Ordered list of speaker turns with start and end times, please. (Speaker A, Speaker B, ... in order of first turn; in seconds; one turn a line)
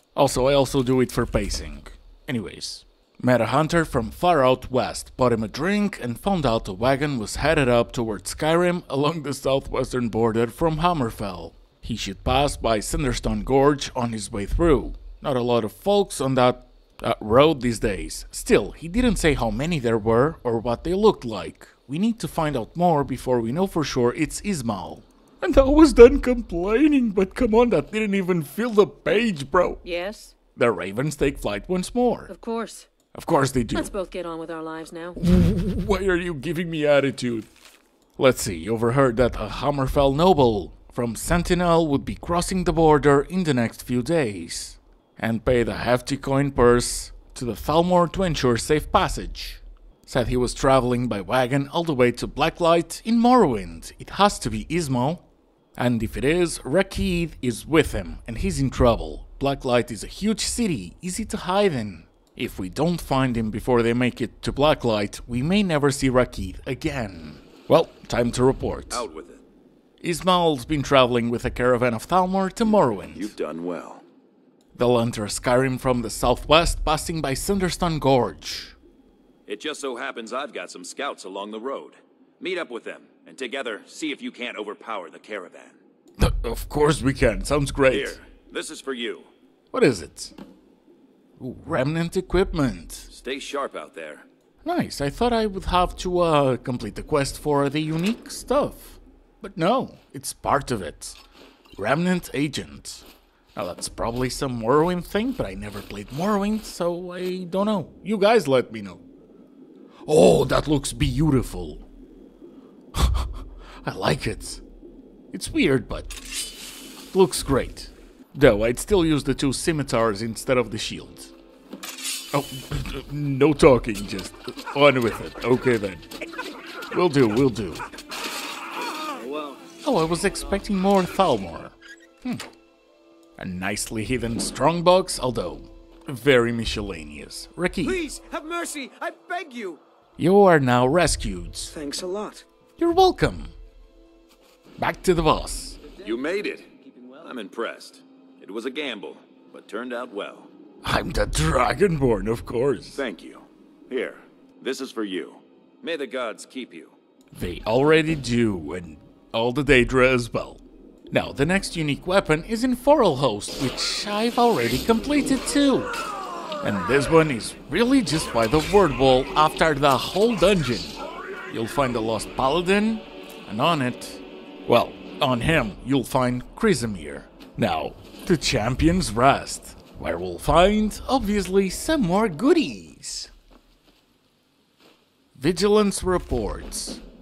Speaker A: 0.1-29.8
Speaker B: 29.8-30.3
Speaker A: 30.5-32.3
Speaker B: 32.3-32.9
Speaker A: 33.1-33.9
Speaker B: 33.7-35.2
Speaker A: 35.2-37.5
Speaker A: 38.2-55.2
Speaker A: 55.8-69.0
Speaker C: 68.9-69.4
Speaker A: 70.0-73.3
Speaker C: 72.6-74.0
Speaker A: 74.7-78.8
Speaker C: 79.5-85.8
Speaker A: 86.2-88.2
Speaker C: 87.9-89.3
Speaker A: 89.7-90.3
Speaker A: 91.4-93.1
Speaker C: 93.1-94.2
Speaker A: 94.6-101.2
Speaker A: 101.7-109.0
Speaker A: 110.0-111.8
Speaker A: 112.9-113.3
Speaker A: 113.8-114.6
Speaker A: 115.3-116.2
Speaker A: 117.1-121.3
Speaker A: 122.3-126.0
Speaker A: 126.9-127.8
Speaker C: 129.2-129.6
Speaker A: 129.8-132.4
Speaker A: 133.4-138.0
Speaker D: 137.8-139.8
Speaker A: 140.2-141.8
Speaker D: 141.7-142.4
Speaker A: 142.8-143.5
Speaker A: 144.8-145.8
Speaker C: 146.0-146.7
Speaker D: 146.0-147.3
Speaker C: 147.2-150.5
Speaker A: 150.8-153.0
Speaker C: 152.9-156.9
Speaker A: 157.3-165.9
Speaker A: 166.6-171.0
Speaker A: 171.5-183.3
Speaker A: 185.3-187.0